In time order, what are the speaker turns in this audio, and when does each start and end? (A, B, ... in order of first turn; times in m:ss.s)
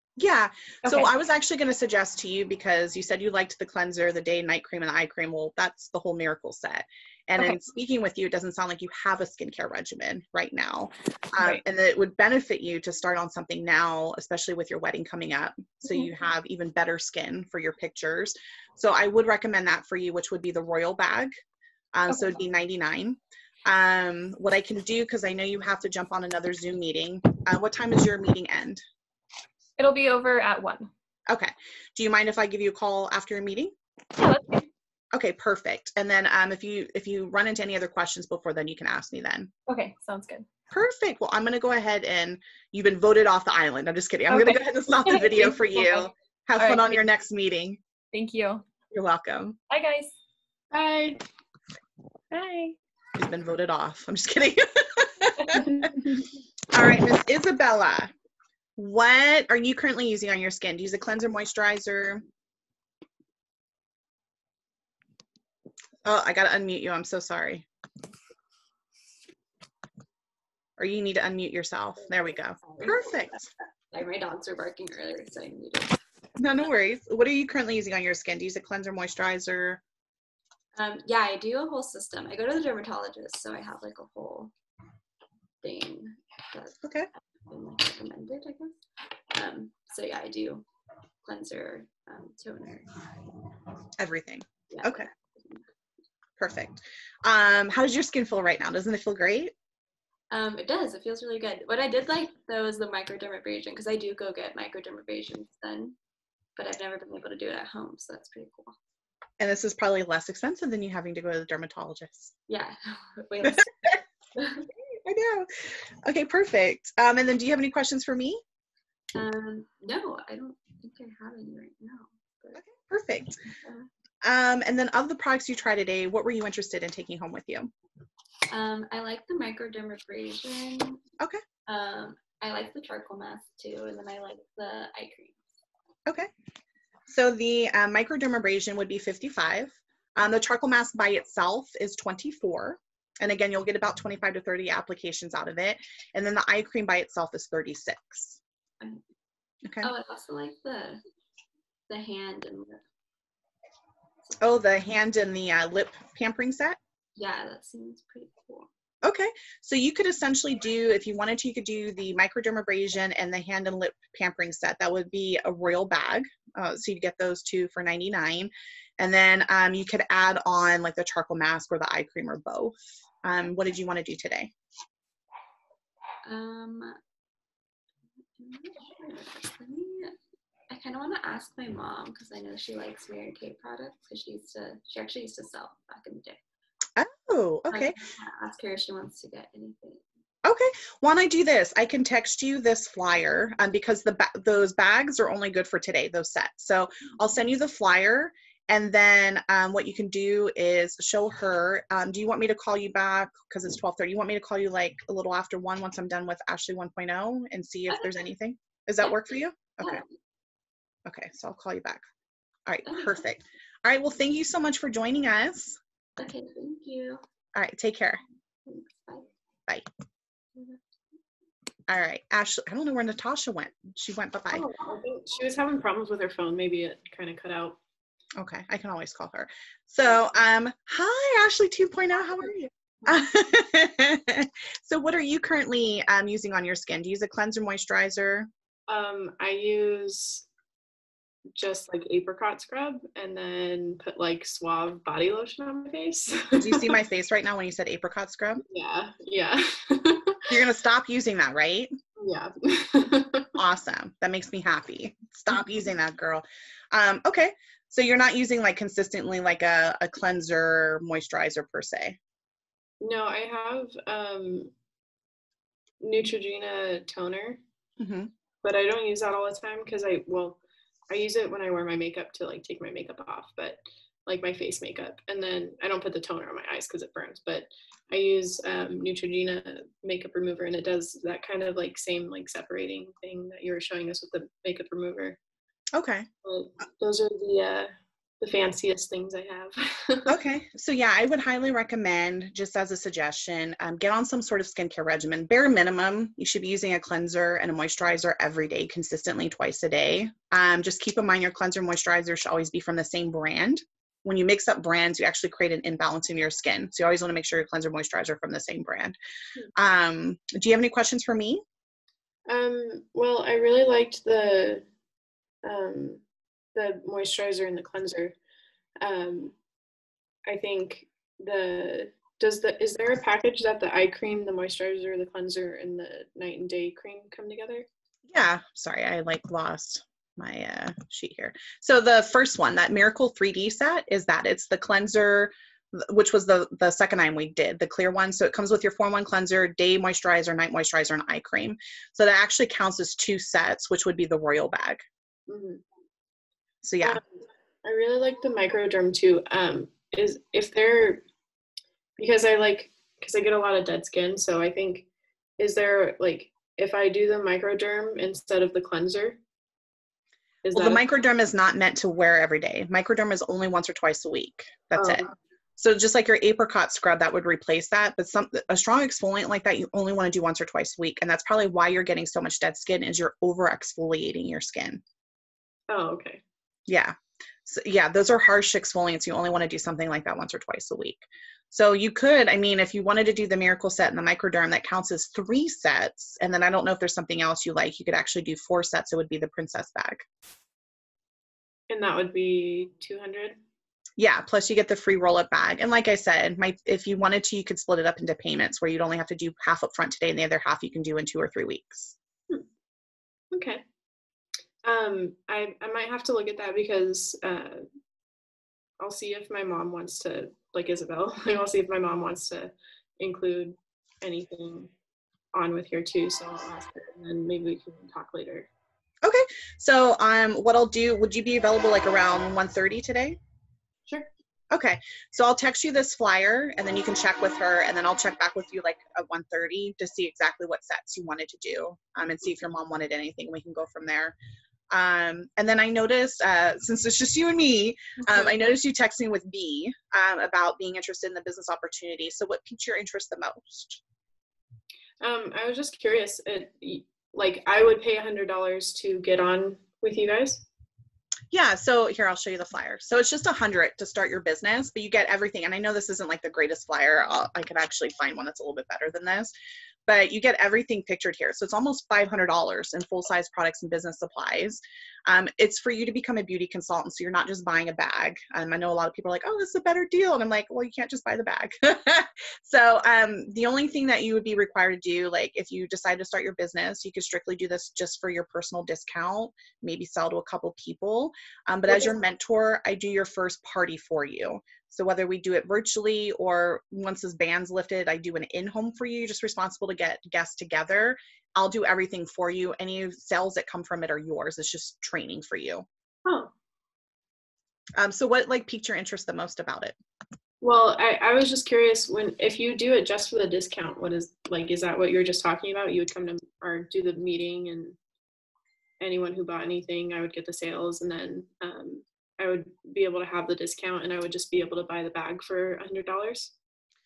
0:00.2-0:21.3 A
0:00.8-0:01.1 B
0:21.9-0:28.8 A
0:29.8-0:30.9 B
0:31.3-0:33.7 A
0:34.2-0:34.7 B
0:35.1-0:39.5 A
0:39.7-0:40.5 B
0:40.7-0:47.8 A
0:44.3-0:47.0 B
0:48.1-0:48.6 B
0:48.9-0:49.6 A
0:49.7-0:50.1 B
0:50.7-0:51.2 C
0:52.3-0:52.8 B
0:53.2-0:56.1 A
0:56.7-0:58.1 A
0:58.8-1:02.2 A
1:06.0-1:07.6 A
1:10.8-1:13.4 A
1:12.6-1:13.1 D
1:13.9-1:16.0 D
1:16.4-1:19.8 A
1:20.8-1:24.5 D
1:25.6-1:26.8 D
1:26.8-1:27.1 A
1:27.4-1:28.8 D
1:29.3-1:30.6 D
1:31.2-1:33.0 D
1:34.0-1:35.1 A
1:34.7-1:35.6 D
1:36.4-1:39.5 A
1:40.3-1:46.0 D
1:46.6-1:48.8 D
1:49.4-1:52.3 A
1:52.5-1:53.7 D
1:53.4-1:54.0 A
1:54.4-1:54.7 D
1:54.9-1:58.4 A
1:59.1-2:02.6 D
2:02.5-2:03.4 A
2:04.2-2:07.7 A
2:08.5-2:11.0 D
2:11.7-2:15.4 D
2:17.1-2:28.4 A
2:29.6-2:29.9 A
2:29.8-2:31.0 D
2:31.9-2:32.8 D
2:34.4-2:36.8 A
2:37.2-2:38.7 D
2:39.0-2:54.5 A
2:56.2-2:57.0 D
2:58.4-3:00.2 D
3:00.7-3:06.4 D
3:07.0-3:08.0 A
3:07.7-3:10.0 D
3:10.4-3:30.0 A
3:31.0-3:32.0 A
3:32.6-3:35.8 A
3:32.8-3:33.2 D
3:36.2-3:37.2 D
3:37.5-3:38.2 A
3:38.6-3:39.3 D
3:41.9-3:44.7 A
3:44.5-3:47.8 C
3:48.4-3:58.5 A
3:58.9-4:00.4 C
4:01.5-4:06.9 C
4:06.6-4:08.6 A
4:08.7-4:10.4 C
4:10.5-4:11.9 A
4:12.2-4:13.5 C
4:13.6-4:22.2 A
4:23.0-4:24.7 C
4:26.0-4:27.6 C
4:28.0-4:28.3 A
4:28.6-4:45.4 C
4:45.9-4:46.3 A
4:46.4-4:50.3 C
4:50.3-5:09.2 A
5:09.8-5:11.6 A
5:12.5-5:14.8 C
5:15.6-5:16.2 C
5:16.7-5:18.3 C
5:19.0-5:19.5 C
5:20.4-5:27.8 C
5:28.2-5:45.0 A
5:45.5-5:45.8 C
5:46.8-5:47.2 A
5:47.0-5:47.3 C
5:47.8-5:51.2 C
5:52.2-5:55.0 C
5:55.6-5:59.4 C
6:00.6-6:01.0 C
6:00.7-6:15.0 A
6:05.0-6:05.3 C
6:15.9-6:16.4 C
6:16.9-6:30.2 A
6:31.9-6:33.6 C
6:34.2-6:42.2 A
6:43.5-6:43.8 C
6:44.8-6:47.8 C
6:49.0-6:54.9 C
6:55.5-6:58.7 C
6:59.2-7:03.4 A
7:04.7-7:14.4 A
7:14.9-7:24.0 A
7:18.2-7:18.6 C
7:25.2-7:30.6 C
7:31.5-7:39.5 A
7:40.1-8:15.8 A
8:16.2-8:16.5 C
8:18.0-8:20.0 A
8:20.6-8:28.0 C
8:29.0-8:36.5 C